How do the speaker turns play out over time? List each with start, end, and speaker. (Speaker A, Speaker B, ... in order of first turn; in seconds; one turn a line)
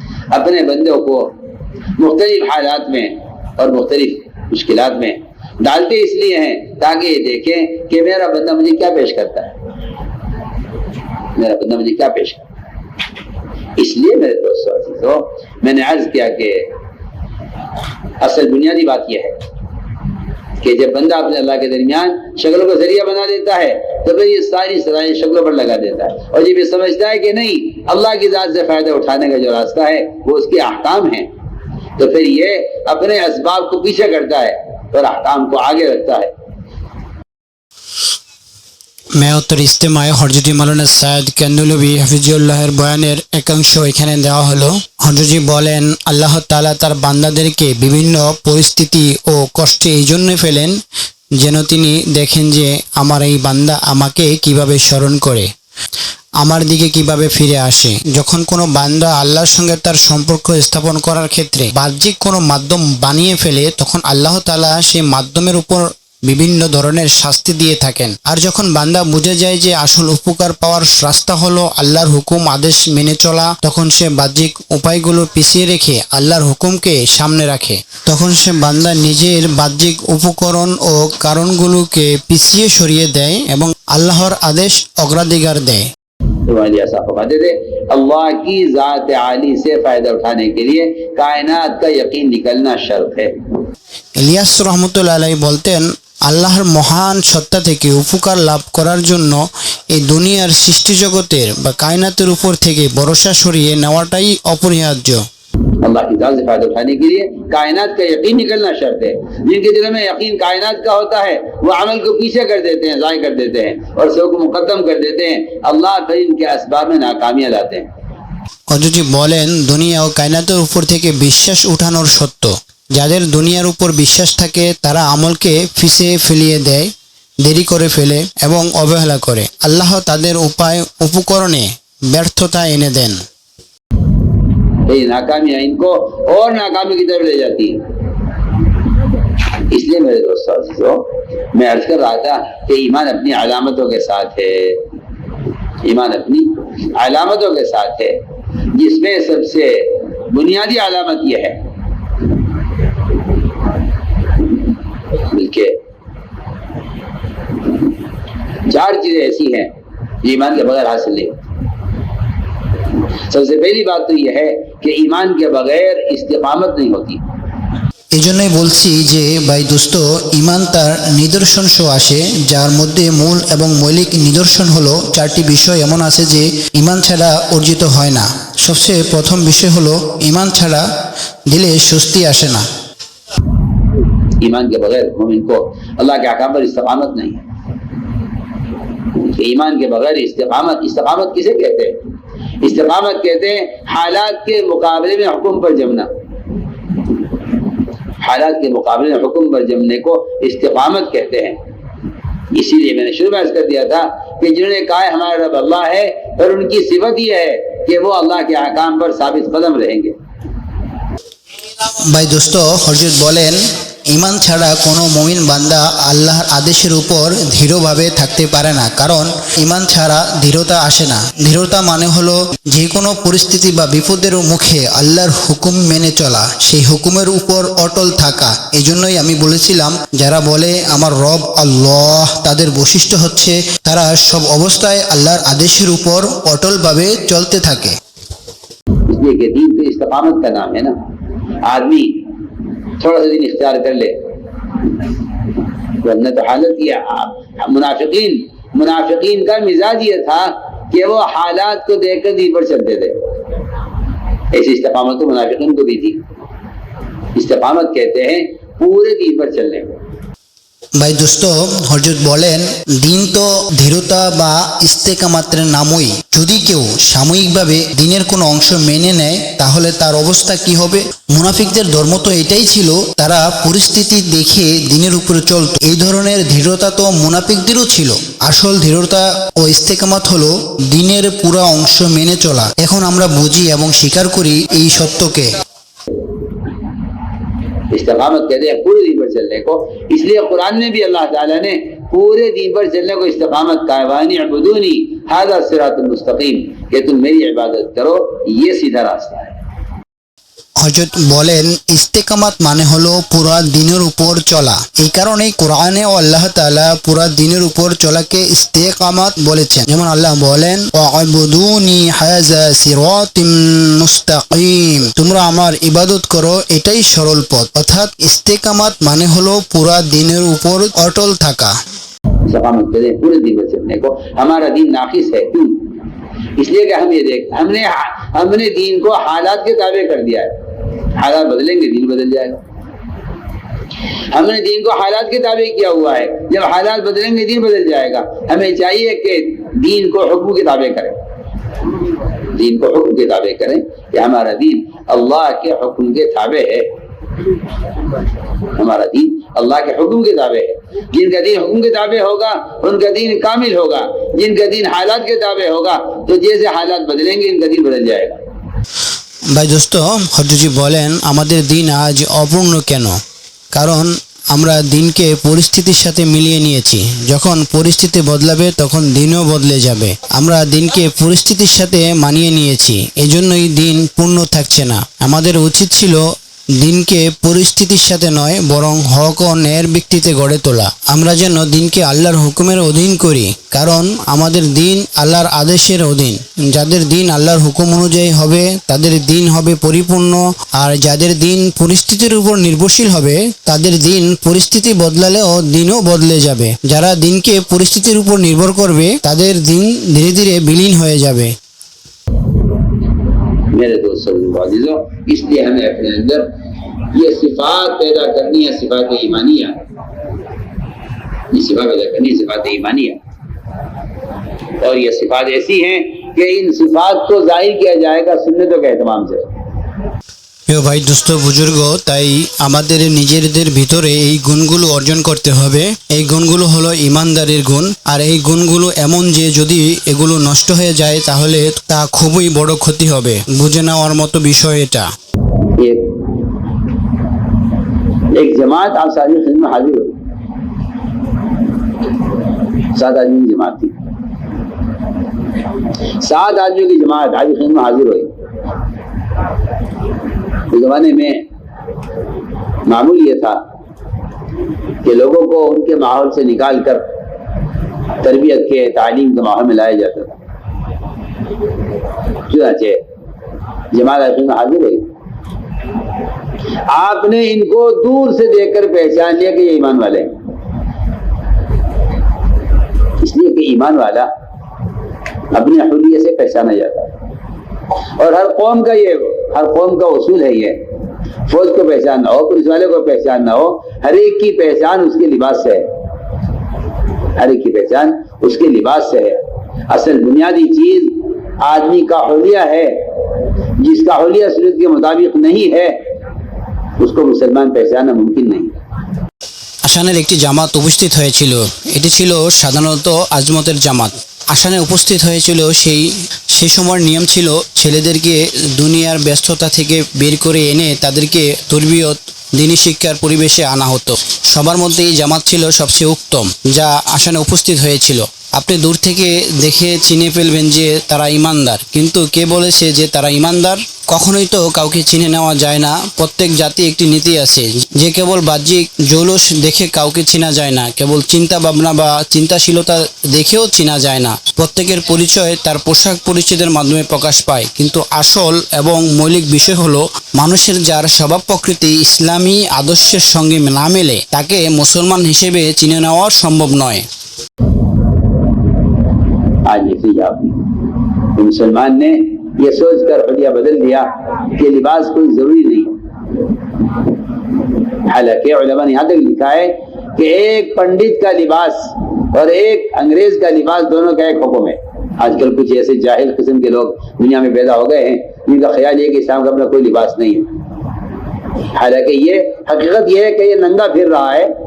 Speaker A: 0.3-1.3
Speaker A: 2.0-9.5
Speaker A: 11.3-12.4
Speaker A: 13.8-16.7
Speaker A: 18.2-19.3
Speaker A: 20.6-31.3
Speaker A: 32.0-36.3
Speaker B: 39.2-50.8
Speaker B: 51.4-55.5
Speaker B: 56.4-85.8
Speaker A: 86.5-93.3
Speaker B: 94.2-105.2
Speaker A: 105.8-117.9
Speaker B: 118.7-126.9
Speaker B: 127.4-133.2
Speaker A: 134.8-137.8
Speaker A: 139.7-144.8
Speaker A: 145.8-148.2
Speaker A: 148.7-151.6
Speaker A: 155.2-155.7
Speaker A: 158.7-159.7
Speaker A: 160.2-161.4
Speaker A: 163.3-167.2
Speaker B: 168.1-180.8
Speaker B: 181.5-182.6
Speaker A: 184.4-187.4
Speaker A: 189.2-191.9
Speaker A: 192.6-196.1
Speaker A: 198.2-201.6
Speaker A: 202.5-210.2
Speaker B: 211.8-237.9
Speaker A: 239.1-240.9
Speaker A: 241.6-242.2
Speaker A: 243.0-244.1
Speaker A: 246.0-253.2
Speaker A: 254.5-256.2
Speaker A: 257.3-259.9
Speaker B: 261.0-285.5
Speaker A: 287.9-299.5
Speaker B: 300.8-321.7
Speaker A: 322.4-325.8
Speaker A: 326.6-330.5
Speaker A: 331.1-332.6
Speaker A: 334.3-341.2
Speaker A: 342.5-346.8
Speaker A: 348.8-358.4
Speaker B: 359.5-363.2
Speaker B: 363.7-376.2
Speaker B: 376.8-401.5
Speaker A: 403.7-406.5
Speaker A: 407.1-409.8
Speaker A: 411.5-413.2
Speaker A: 414.8-419.5
Speaker B: 420.7-435.1
Speaker A: 435.8-436.1
Speaker A: 438.3-440.1
Speaker A: 442.9-443.9
Speaker A: 446.2-448.3
Speaker A: 450.7-451.4
Speaker A: 452.9-453.6
Speaker A: 455.0-457.0
Speaker A: 458.2-460.4
Speaker A: 462.5-463.0
Speaker A: 463.9-465.0
Speaker A: 466.9-470.3
Speaker A: 473.2-474.3
Speaker A: 475.5-477.1
Speaker A: 478.2-480.8
Speaker A: 481.5-485.8
Speaker A: 487.4-489.4
Speaker A: 489.9-492.9
Speaker A: 493.8-495.9
Speaker A: 497.0-498.7
Speaker B: 499.9-547.0
Speaker A: 549.6-550.6
Speaker A: 551.3-555.9
Speaker A: 558.0-570.5
Speaker A: 571.7-574.5